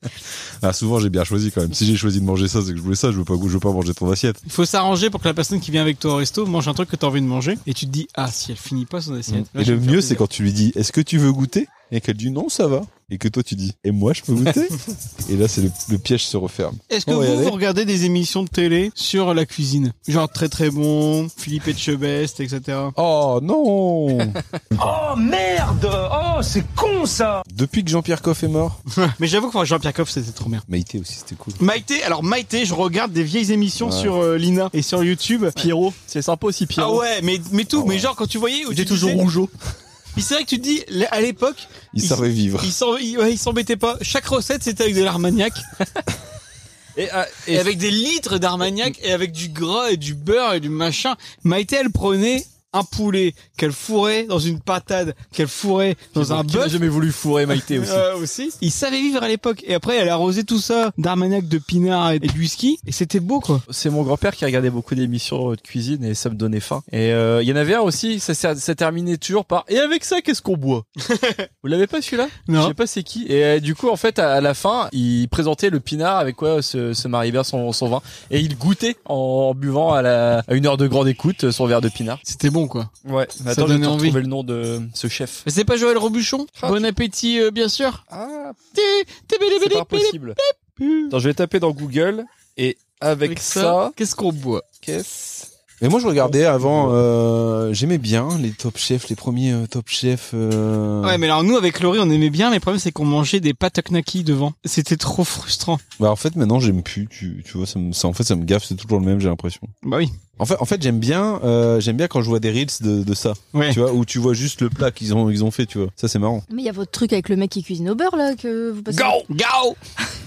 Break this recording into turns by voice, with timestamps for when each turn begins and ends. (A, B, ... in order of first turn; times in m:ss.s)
0:00.6-0:04.4 A
0:04.5-0:10.2 B
0:09.3-0:17.6 A
0:16.9-0:22.9 B
0:23.0-0:24.4 A
0:24.8-0:27.4 C
0:27.5-0:28.8 A
0:29.0-0:30.6 B
0:30.7-0:31.6 A
0:31.6-0:35.7 B
0:33.8-0:34.2 A
0:35.6-0:37.0 D
0:36.8-0:39.2 B
0:37.7-0:38.1 A
0:38.7-0:39.5 D
0:40.2-0:45.6 B
0:41.9-0:42.7 A
0:47.0-0:47.7 D
0:47.5-0:56.8 B
0:56.2-0:58.1 D
0:57.5-1:03.6 B
1:03.7-1:10.8 D
1:11.1-1:11.4 B
1:11.6-1:22.2 D
1:12.5-1:12.8 B
1:22.2-1:22.9 B
1:23.0-1:25.5 D
1:23.5-1:24.2 B
1:25.4-1:28.0 B
1:26.6-1:26.9 D
1:28.1-1:28.6 D
1:28.7-1:31.1 B
1:29.6-1:30.4 D
1:31.1-1:34.0 D
1:33.2-1:34.6 B
1:34.8-1:35.5 D
1:35.8-1:41.2 A
1:36.6-1:37.0 D
1:41.0-1:45.8 B
1:46.0-1:49.7 A
1:49.8-1:50.1 B
1:50.4-1:56.4 A
1:53.5-1:53.8 B
1:56.5-1:59.2 E
1:58.9-1:59.2 D
1:59.3-1:59.8 B